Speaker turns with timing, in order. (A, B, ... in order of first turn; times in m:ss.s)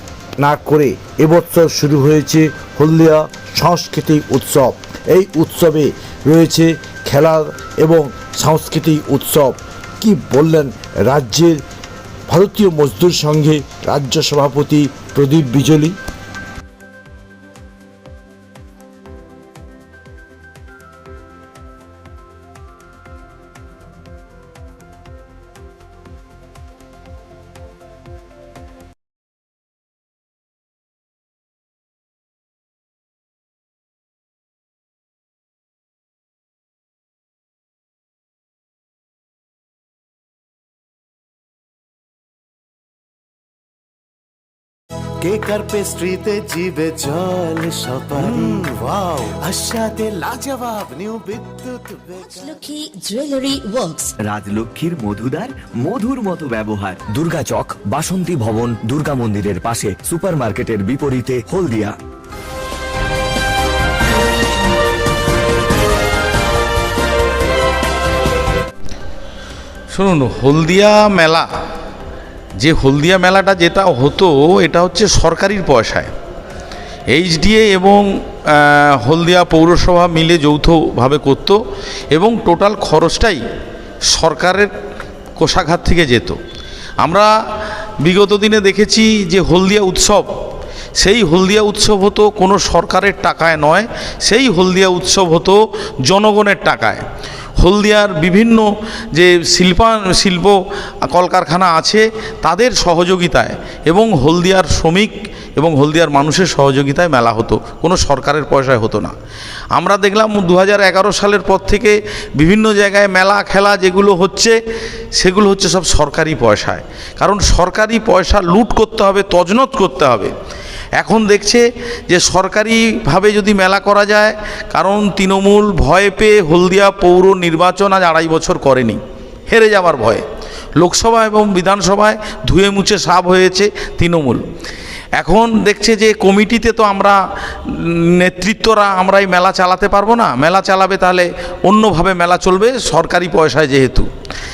0:00.4-0:11.6 A
0:12.3-0:16.0 A
0:45.2-0:52.6 B
0:52.2-0:54.1 C
0:54.2-0:57.0 D
0:57.1-1:02.0 E
1:09.9-1:11.5 F
1:12.6-1:16.1 F
1:17.1-1:21.6 F
1:22.1-1:23.4 F
1:24.1-1:24.7 F
1:25.4-1:26.4 F
1:27.0-1:27.3 F
1:28.0-1:30.3 F
1:31.0-1:37.0 F
1:37.6-1:49.1 F
1:49.7-1:54.6 F
1:55.2-2:00.3 F
2:01.0-2:10.2 F
2:10.8-2:14.4 F
2:15.2-2:24.1 F